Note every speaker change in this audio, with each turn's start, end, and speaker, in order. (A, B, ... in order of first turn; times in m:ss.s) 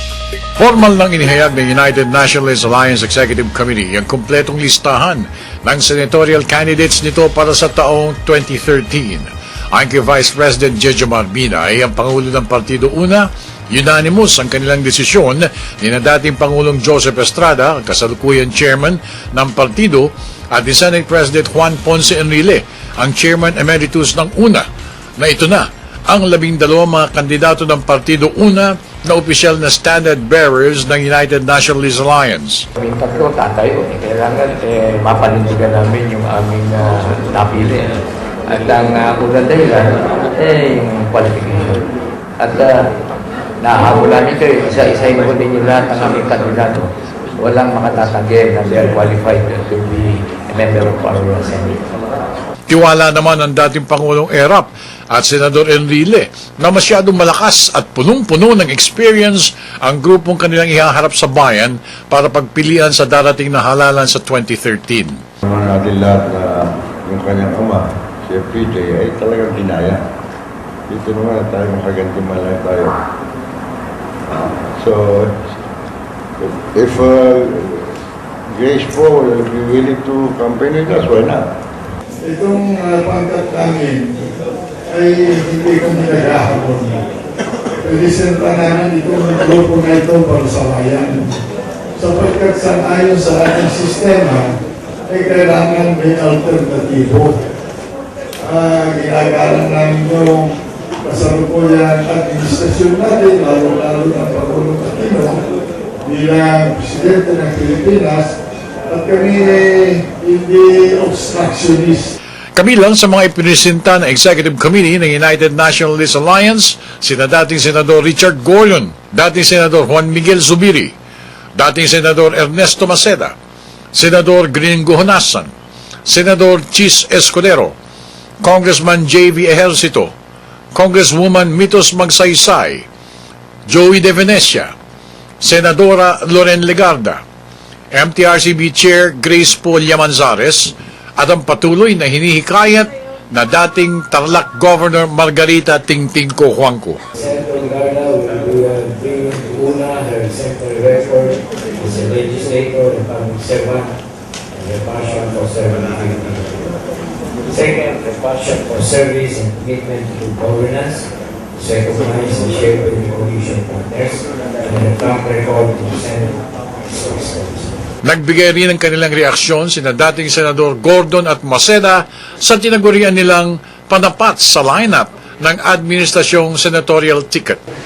0:00.6-0:24.6 A
0:25.2-0:32.7 A
0:32.8-0:37.9 B
0:38.4-0:41.8 B
0:42.4-0:42.7 B
0:43.6-0:46.9 B
0:47.4-0:49.1 B
0:49.3-0:49.9 C
0:50.6-0:51.0 B
0:51.2-0:51.8 C
0:52.7-1:05.2 A
1:05.4-1:10.0 D
1:10.9-1:13.0 D
1:14.3-1:15.4 D
1:16.4-1:18.0 D
1:18.5-1:21.5 D
1:22.2-1:24.3 E
1:24.9-1:27.0 E
1:27.8-1:31.3 E
1:32.0-1:34.5 E
1:35.1-1:37.4 E
1:38.4-1:45.4 E
1:46.0-1:48.4 E
1:48.9-1:52.1 E
1:52.5-2:00.9 A
2:01.6-2:03.3 A
2:03.9-2:05.5 A
2:06.0-2:07.8 A
2:08.4-2:10.1 A
2:10.7-2:12.8 A
2:13.7-2:14.7 A
2:15.4-2:17.2 A
2:17.9-2:27.0 A
2:27.1-2:33.9 C
2:34.5-2:36.7 C
2:37.5-2:47.8 C
2:48.0-2:57.6 A